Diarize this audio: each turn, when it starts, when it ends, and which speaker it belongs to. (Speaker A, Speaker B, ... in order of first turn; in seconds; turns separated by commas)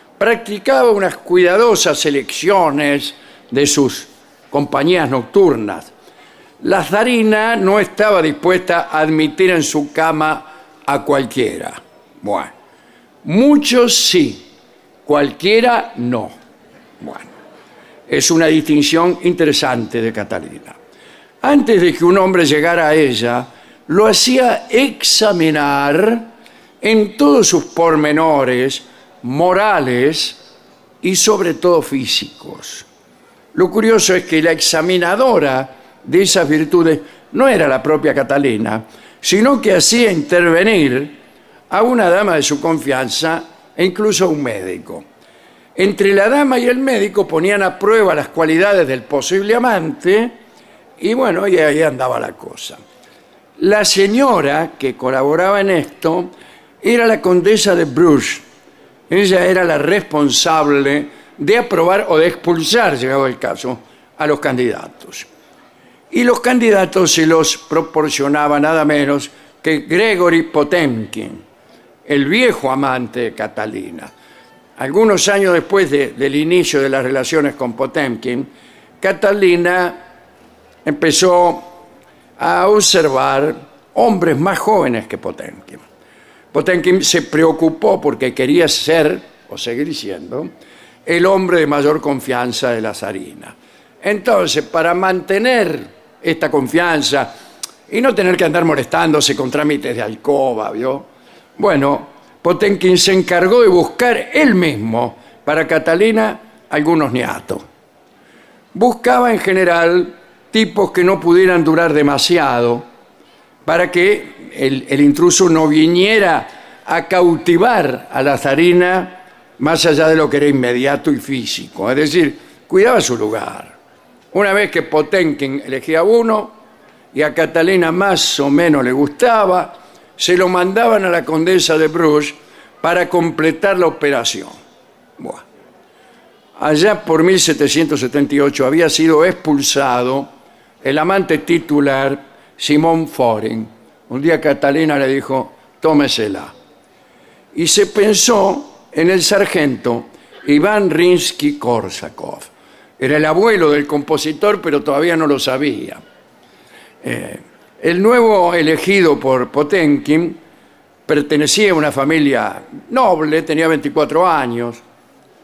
Speaker A: 0.2-5.9, Speaker A: 6.6-12.5, Speaker A: 13.2-14.5, Speaker A: 15.0-16.3, Speaker A: 17.0-17.3, Speaker A: 18.1-20.8, Speaker A: 21.4-26.3, Speaker A: 26.8-30.4, Speaker A: 31.0-32.9, Speaker A: 33.5-41.1, Speaker A: 41.7-45.0, Speaker A: 45.8-50.3, Speaker A: 51.0-52.8, Speaker A: 53.6-56.3, Speaker A: 56.8-58.4, Speaker A: 59.1-65.3, Speaker A: 66.1-71.4, Speaker A: 72.0-74.1, Speaker A: 74.8-78.5, Speaker A: 79.0-80.0, Speaker A: 80.8-81.8, Speaker A: 82.4-85.8, Speaker A: 86.5-90.5, Speaker A: 91.0-97.3, Speaker A: 97.9-107.6, Speaker A: 108.7-112.8, Speaker A: 113.7-123.7, Speaker A: 124.3-126.5, Speaker A: 127.1-134.6, Speaker A: 136.6-140.3, Speaker A: 140.8-146.5, Speaker A: 147.5-156.0, Speaker A: 157.0-160.4, Speaker A: 161.1-164.8